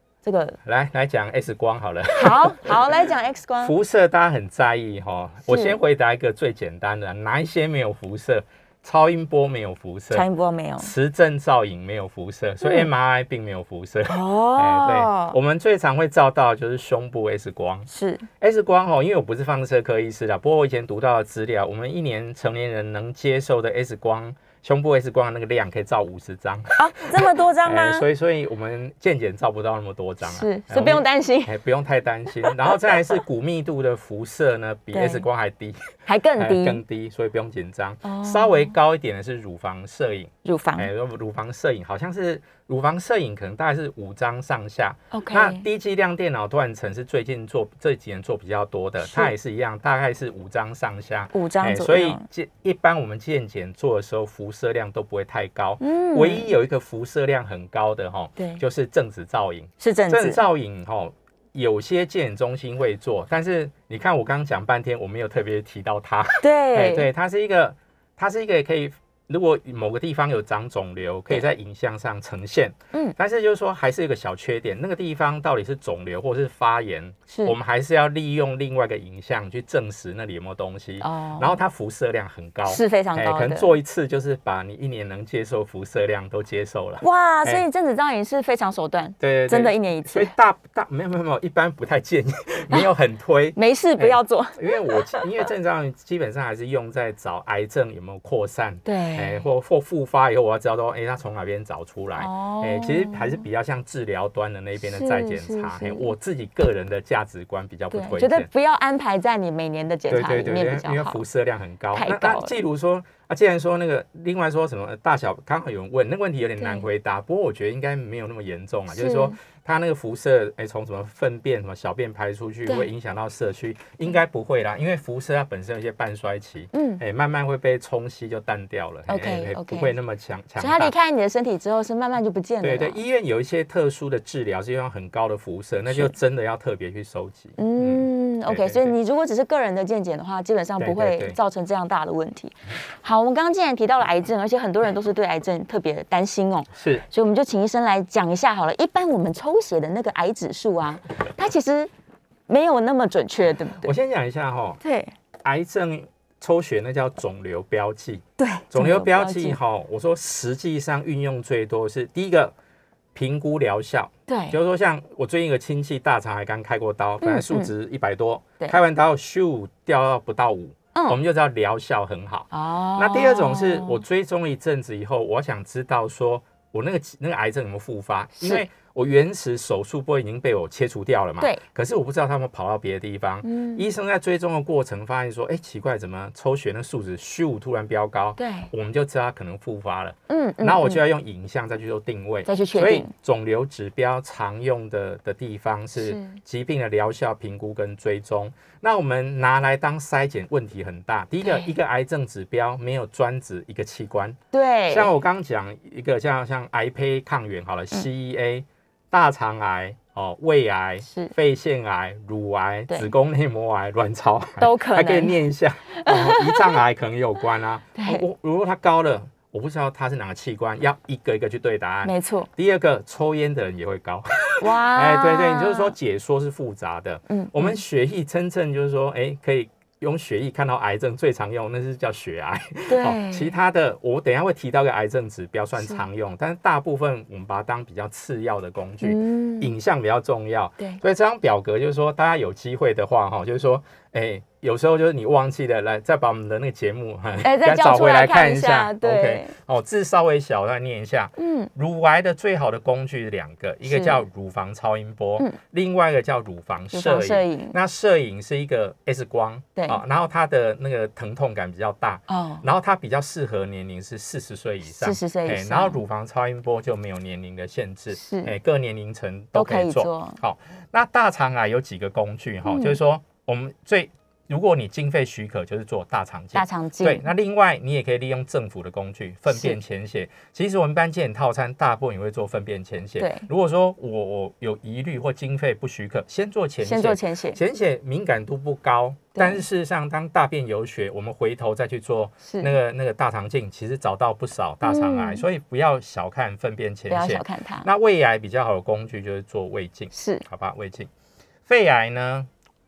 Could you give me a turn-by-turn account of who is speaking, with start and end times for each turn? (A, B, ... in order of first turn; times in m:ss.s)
0:00.2-0:00.6 A
0:00.6-0:03.0 B
0:02.2-0:03.7 A
0:03.6-0:10.3 B
0:05.5-0:05.8 A
0:10.1-0:10.9 A
0:10.8-0:17.9 B
0:14.1-0:15.4 A
0:17.9-0:18.3 A
0:18.4-1:27.6 B
0:26.8-0:28.0 A
0:30.2-0:31.6 A
0:34.9-0:35.2 A
0:36.0-0:36.8 A
0:38.0-0:38.7 A
0:40.4-0:40.9 A
0:45.1-0:45.6 A
0:49.0-0:49.3 A
0:51.3-0:52.2 A
0:55.8-0:56.5 A
0:58.4-0:58.6 A
0:59.8-1:00.4 A
1:06.4-1:07.1 A
1:17.3-1:17.6 A
1:21.0-1:21.6 A
1:22.7-1:23.7 A
1:27.0-1:30.3 A
1:29.2-1:48.5 B
1:33.6-1:35.4 A
1:38.8-1:39.4 A
1:42.2-1:43.4 A
1:44.8-1:46.1 A
1:47.9-1:51.2 A
1:50.1-2:10.9 B
1:51.9-1:52.6 A
1:56.6-1:56.8 A
1:58.9-1:59.3 A
2:06.7-2:07.0 A
2:09.1-2:09.9 A
2:10.6-2:13.0 A
2:12.6-2:18.9 B
2:17.6-2:31.9 A
2:20.8-2:21.4 B
2:26.8-2:27.0 B
2:32.5-2:33.9 A
2:33.8-2:34.8 B
2:34.8-2:35.1 A
2:35.4-2:42.5 B
2:38.4-2:39.6 A
2:43.1-3:24.4 B
2:44.3-2:44.6 A
2:47.2-2:47.7 A
2:52.5-2:54.0 A
2:58.4-2:58.6 A
3:03.4-3:03.9 A
3:08.4-3:08.7 A
3:10.3-3:11.0 A
3:12.4-3:13.1 A
3:16.0-3:16.4 A
3:21.4-3:21.7 A
3:24.5-3:25.1 A
3:24.9-5:01.1 B
3:31.0-3:31.3 A
3:34.6-3:35.4 A
3:35.9-3:36.8 A
3:37.9-3:38.2 A
3:42.0-3:42.5 A
3:44.6-3:45.9 A
3:47.3-3:47.8 A
3:52.9-3:53.5 A
3:59.0-3:59.7 A
4:07.4-4:09.5 A
4:11.4-4:11.7 A
4:13.8-4:14.2 A
4:16.9-4:17.7 A
4:19.8-4:20.0 A
4:22.3-4:22.6 A
4:24.9-4:26.0 A
4:28.1-4:28.5 A
4:29.6-4:30.4 A
4:32.7-4:33.0 A
4:36.5-4:37.3 A
4:39.5-4:39.8 A
4:43.2-4:43.5 A
4:46.8-4:47.6 A
4:49.3-4:49.6 A
4:52.4-4:52.7 A
4:54.8-4:55.4 A
4:57.1-4:57.9 A
5:00.1-5:00.4 A
5:01.7-5:02.5 B